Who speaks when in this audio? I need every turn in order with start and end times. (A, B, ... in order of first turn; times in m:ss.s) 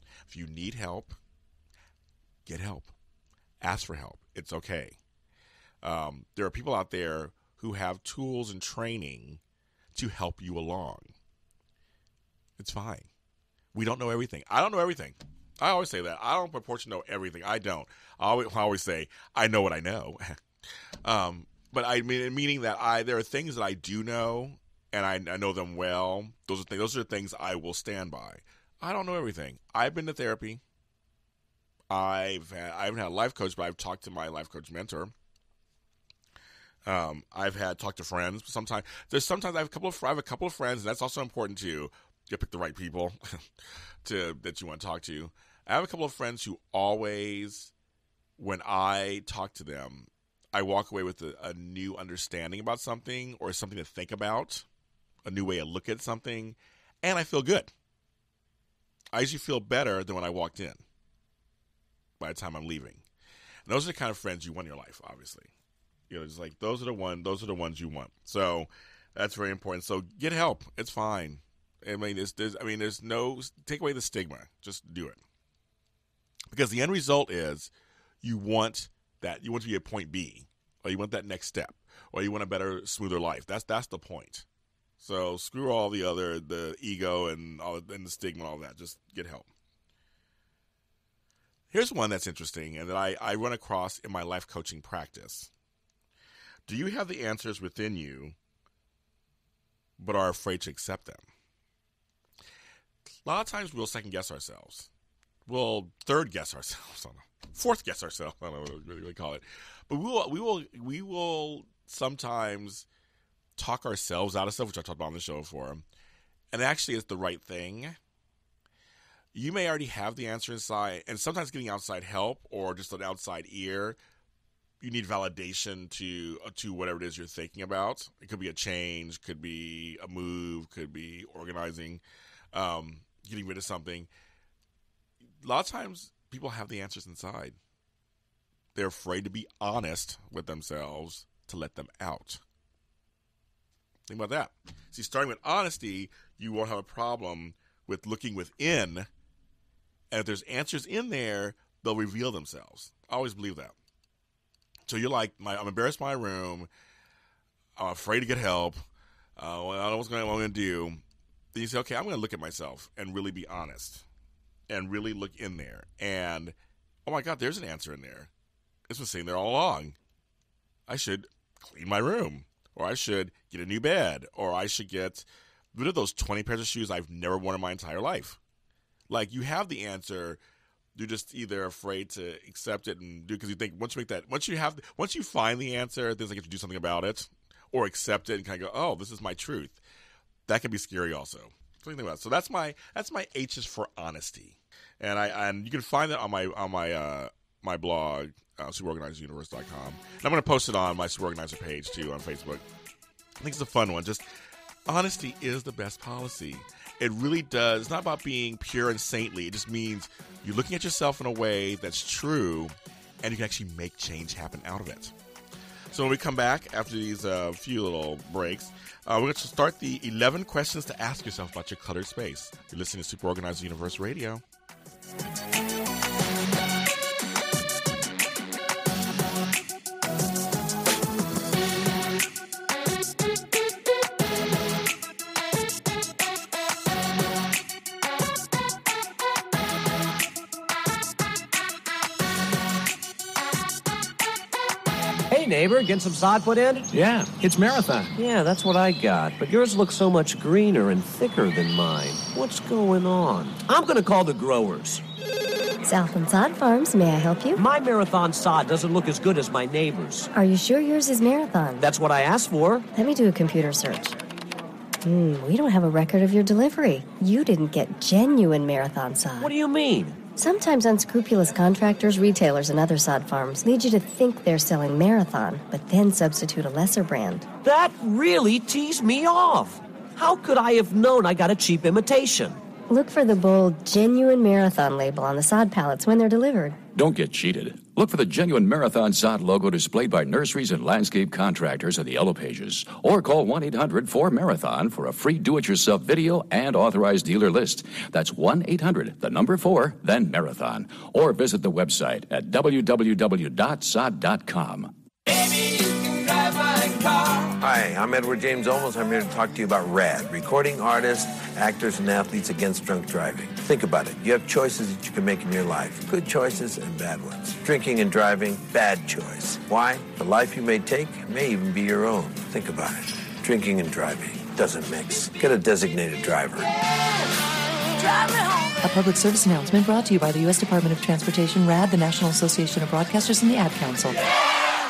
0:00.3-0:01.2 A
0:02.5-0:02.9 A
0:03.6-0:05.0 A
0:05.8-0:09.4 A
0:10.0-0:11.1 A
0:12.6-0:13.1 A
0:13.7-0:20.4 A
0:21.0-0:30.6 A
0:31.9-0:35.1 A
0:36.8-0:43.4 A
0:44.0-0:47.7 A
0:48.4-0:54.6 A
0:55.2-0:57.7 A
0:59.1-1:00.8 A
1:02.2-1:03.0 A
1:03.7-1:05.5 A
1:06.1-1:15.2 A
1:16.5-1:17.7 A
1:18.2-1:24.4 A
1:25.0-1:29.5 A
1:31.7-1:35.5 A
1:36.7-1:38.4 A
1:40.0-1:41.2 A
1:43.2-1:44.9 A
1:45.5-1:52.9 A
1:53.6-1:55.8 A
1:56.5-1:58.0 A
1:59.3-2:04.0 A
2:04.8-2:12.0 A
2:12.5-2:14.1 A
2:15.4-2:17.6 A
2:18.8-2:22.4 A
2:24.1-2:29.1 A
2:30.1-2:33.7 A
2:34.9-2:36.7 A
2:37.8-2:38.8 A
2:39.4-2:41.0 A
2:41.5-2:44.0 A
2:44.7-2:48.3 A
2:48.9-2:50.0 A
2:50.9-2:58.4 A
2:59.1-3:00.4 A
3:01.0-3:09.8 A
3:10.5-3:22.6 A
3:23.4-3:24.2 A
3:24.9-3:35.1 A
3:35.9-3:44.4 A
4:05.3-4:15.0 B
4:15.8-4:17.6 C
4:17.5-4:20.3 B
4:20.3-4:21.9 C
4:21.8-4:22.9 B
4:22.9-4:24.2 C
4:25.0-4:29.5 C
4:29.4-4:30.2 B
4:30.4-4:37.5 C
4:37.6-4:42.6 B
4:42.9-4:46.8 C
4:47.0-5:04.9 D
5:07.6-5:26.7 E
5:28.8-5:34.2 F